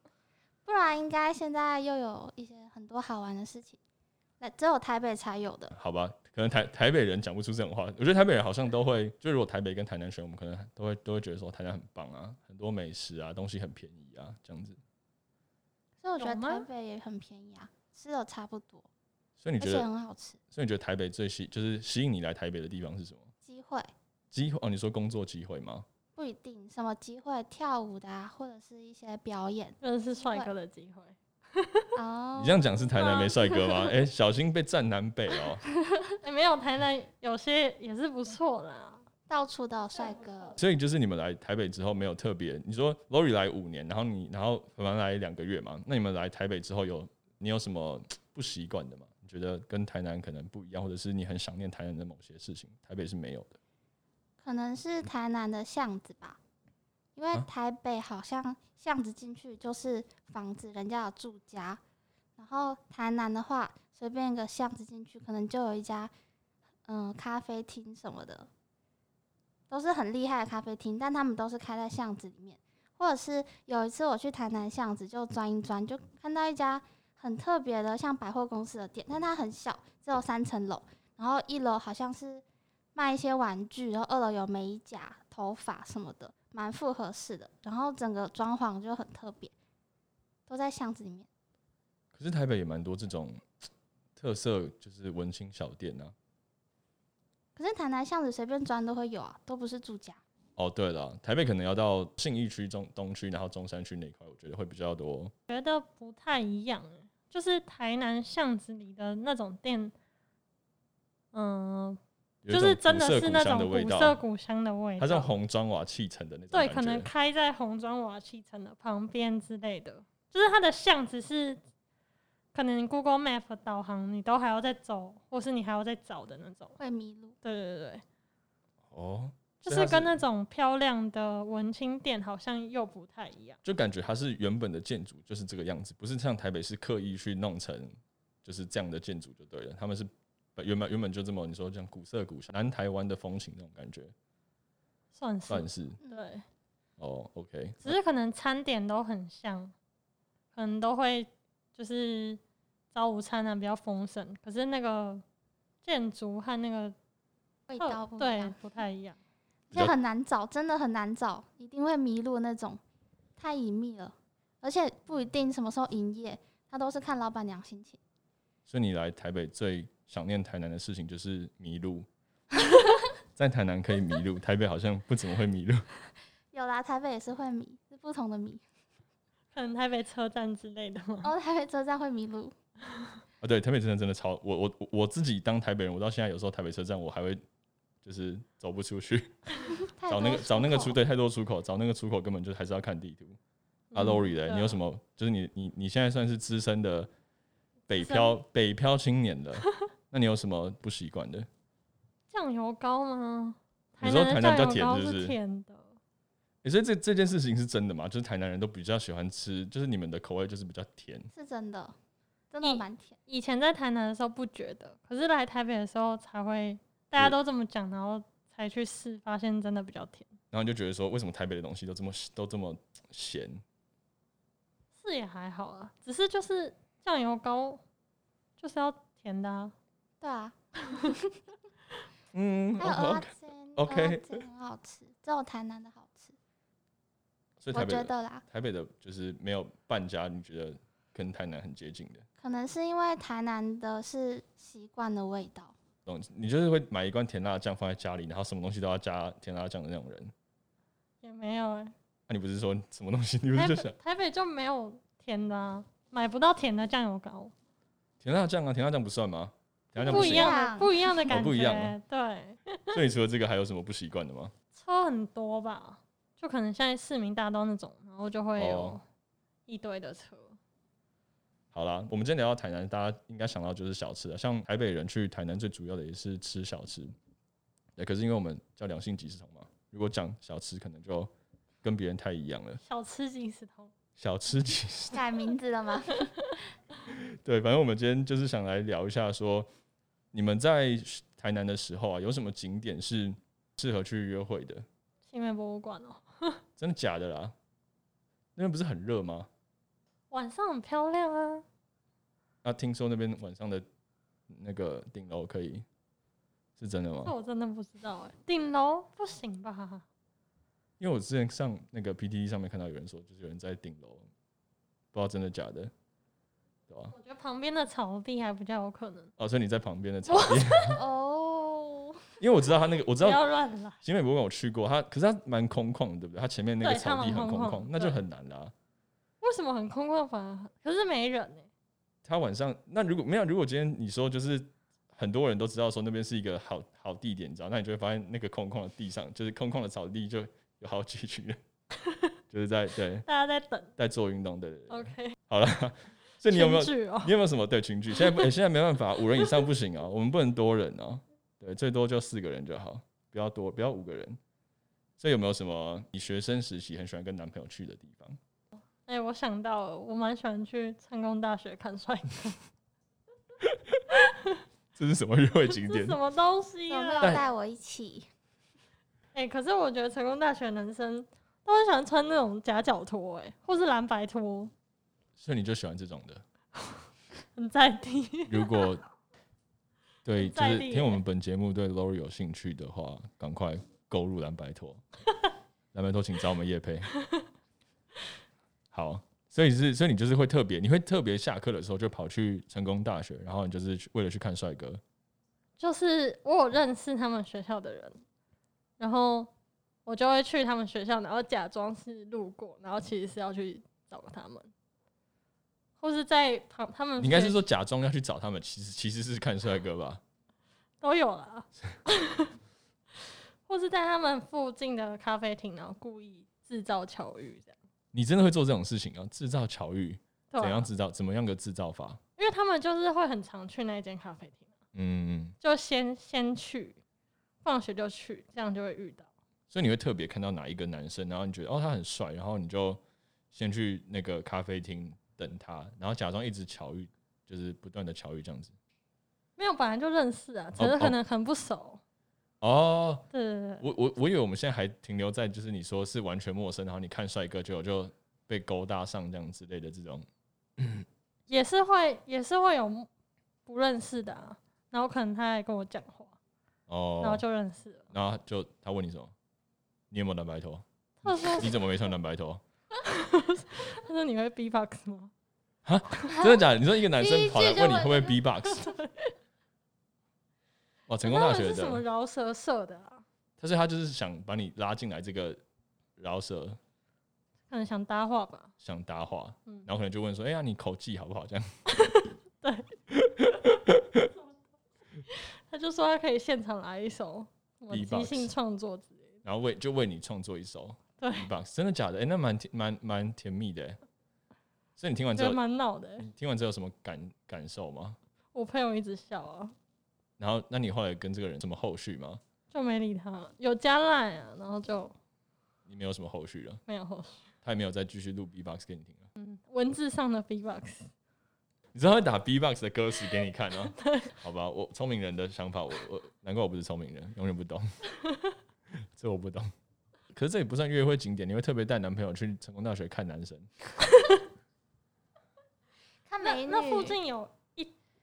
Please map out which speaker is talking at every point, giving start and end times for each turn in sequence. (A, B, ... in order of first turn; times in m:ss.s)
0:00.6-0:03.8 A
0:04.4-0:05.7 A
0:05.7-0:14.8 B
0:16.0-0:18.9 A
0:16.2-0:16.7 C
0:19.4-0:19.9 B
0:19.6-0:20.4 A
0:20.5-0:23.3 B
0:23.4-0:23.9 A
0:24.3-0:25.8 B
0:26.2-0:30.5 A
0:29.8-0:32.0 C
0:32.0-0:33.5 A
0:32.4-0:35.6 B
0:33.0-0:33.8 C
0:35.8-0:36.2 A
0:36.2-0:39.0 C
0:39.3-0:40.6 A
0:40.0-0:40.5 C
0:40.6-0:53.6 B
0:54.4-0:56.4 A
0:57.2-1:01.8 A
1:02.4-1:06.1 A
1:06.8-1:08.5 A
1:09.7-1:22.4 A
1:22.9-1:29.5 A
1:30.5-1:31.3 A
1:32.1-1:33.5 B
1:34.2-1:36.1 B
1:37.6-1:40.2 A
1:40.6-1:45.3 B
1:45.5-1:49.9 C
1:51.3-1:55.3 C
1:52.4-1:54.2 B
1:55.0-1:57.1 B
1:56.5-2:01.6 C
2:02.5-2:06.8 C
2:06.8-2:07.3 A
2:07.4-2:08.0 C
2:08.9-2:10.2 B
2:09.6-2:13.6 C
2:13.6-2:24.1 B
2:25.1-2:26.4 C
2:25.5-2:26.0 B
2:27.0-2:28.0 B
2:27.8-2:29.7 C
2:30.5-2:32.4 C
2:32.9-2:35.2 C
2:35.8-2:36.9 C
2:37.7-2:38.6 A
2:37.8-2:39.2 C
2:39.7-2:42.8 A
2:43.4-2:48.0 A
2:48.7-2:52.1 B
2:53.4-2:55.9 B
2:56.5-2:58.6 A
2:59.5-3:01.3 C
3:01.2-3:02.5 A
3:03.4-3:07.4 B
3:08.0-3:09.4 B
3:09.7-3:11.0 A
3:10.1-3:13.4 B
3:13.9-3:14.8 C
3:13.9-3:17.1 B
3:17.9-3:21.5 B
3:17.9-3:18.4 C
3:22.3-3:25.9 C
3:24.0-3:25.4 B
3:26.6-3:31.3 B
3:31.3-3:32.0 A
3:32.5-3:33.2 A
3:32.6-3:40.3 C
3:40.5-3:43.6 B
3:45.0-3:47.8 C
3:48.6-3:49.7 C
3:50.2-3:51.4 A
3:52.3-3:54.4 B
3:52.8-3:56.4 A
3:57.6-4:02.2 B
3:57.7-3:58.4 A
4:02.4-4:05.7 A
4:06.0-4:10.3 B
4:11.2-4:11.9 C
4:12.3-4:13.9 B
4:13.5-4:17.5 C
4:18.2-4:20.6 B
4:20.0-4:21.0 A
4:20.0-4:23.0 C
4:21.3-4:22.0 B
4:22.9-4:24.5 B
4:24.7-4:29.0 C
4:28.6-4:29.0 B
4:29.7-4:30.6 C
4:31.7-4:37.1 B
4:38.0-4:41.3 B
4:41.8-4:42.8 B
4:42.8-4:43.9 C
4:44.2-4:45.2 B
4:45.1-4:46.3 A
4:46.1-4:46.6 C
4:47.1-4:49.7 B
4:50.3-4:54.8 B
4:55.3-4:56.6 C
4:56.8-4:57.5 B
4:58.6-4:59.5 B
5:00.3-5:01.6 C
5:02.6-5:03.8 B
5:04.5-5:05.8 B
5:06.8-5:07.3 B
5:07.2-5:10.0 C
5:11.0-5:14.3 B
5:15.1-5:15.9 B
5:17.1-5:19.3 C
5:19.4-5:21.0 B
5:20.7-5:22.2 A
5:22.4-5:23.4 B
5:23.2-5:24.0 C
5:24.0-5:28.7 B
5:26.8-5:28.2 C
5:29.4-5:31.7 C
5:32.2-5:41.6 B
5:42.5-5:43.2 B
5:43.2-5:43.9 C
5:44.0-5:54.4 B
5:44.9-5:45.4 C
5:46.4-5:47.3 C
5:48.1-5:48.5 C
5:55.2-5:58.4 B
5:59.0-6:02.6 C
6:03.6-6:04.0 B
6:04.2-6:04.5 C
6:04.9-6:06.2 B
6:05.7-6:07.4 C
6:06.9-6:08.3 A
6:09.3-6:14.7 C
6:15.4-6:16.4 B
6:17.5-6:19.0 C
6:18.5-6:19.0 B
6:20.2-6:25.0 B
6:20.4-6:21.2 C
6:25.9-6:27.1 B
6:28.9-6:35.0 B
6:35.8-6:38.2 C
6:39.0-6:39.5 C
6:40.0-6:44.7 C
6:46.0-6:47.6 C
6:47.2-6:50.2 B
6:51.0-6:52.5 C
6:53.6-6:57.7 C
6:58.1-7:02.2 B
7:00.5-7:00.9 C
7:02.4-7:04.7 C
7:04.9-7:05.6 B
7:05.6-7:07.0 C
7:07.6-7:09.3 C
7:09.7-7:13.0 B
7:13.5-7:18.7 B
7:19.6-7:22.0 C
7:20.8-7:21.2 B
7:22.6-7:23.2 B
7:23.3-7:23.8 C
7:23.8-7:30.2 B
7:30.8-7:31.0 B
7:31.5-7:33.1 C
7:33.6-7:36.4 C
7:36.9-7:37.4 B
7:37.2-7:38.1 C
7:38.1-7:39.3 B
7:40.1-7:42.6 B
7:41.2-7:41.8 C
7:43.0-7:45.3 C
7:45.8-7:48.9 B
7:46.3-7:46.6 A
7:47.2-7:48.3 A
7:48.7-7:49.3 C
7:51.1-7:52.0 B
7:51.2-7:53.2 C
7:53.6-7:55.6 B
7:56.2-7:56.8 B
7:57.7-7:58.7 C
7:58.8-8:01.8 B
8:01.9-8:02.9 C
8:03.1-8:04.3 B
8:05.3-8:09.4 C
8:07.9-8:08.5 B
8:09.4-8:14.0 B
8:11.2-8:11.5 C
8:15.0-8:15.6 B
8:15.3-8:16.3 C
8:16.2-8:18.2 B
8:18.5-8:19.7 C
8:20.4-8:22.4 B
8:22.7-8:25.1 C
8:25.9-8:26.8 B
8:26.9-8:27.5 C
8:27.6-8:29.3 B
8:29.4-8:31.1 C
8:31.9-8:37.9 B
8:33.9-8:34.3 C
8:39.1-8:39.7 B
8:40.3-8:43.7 B
8:44.0-8:44.4 C
8:46.2-8:47.2 A
8:46.4-8:47.9 C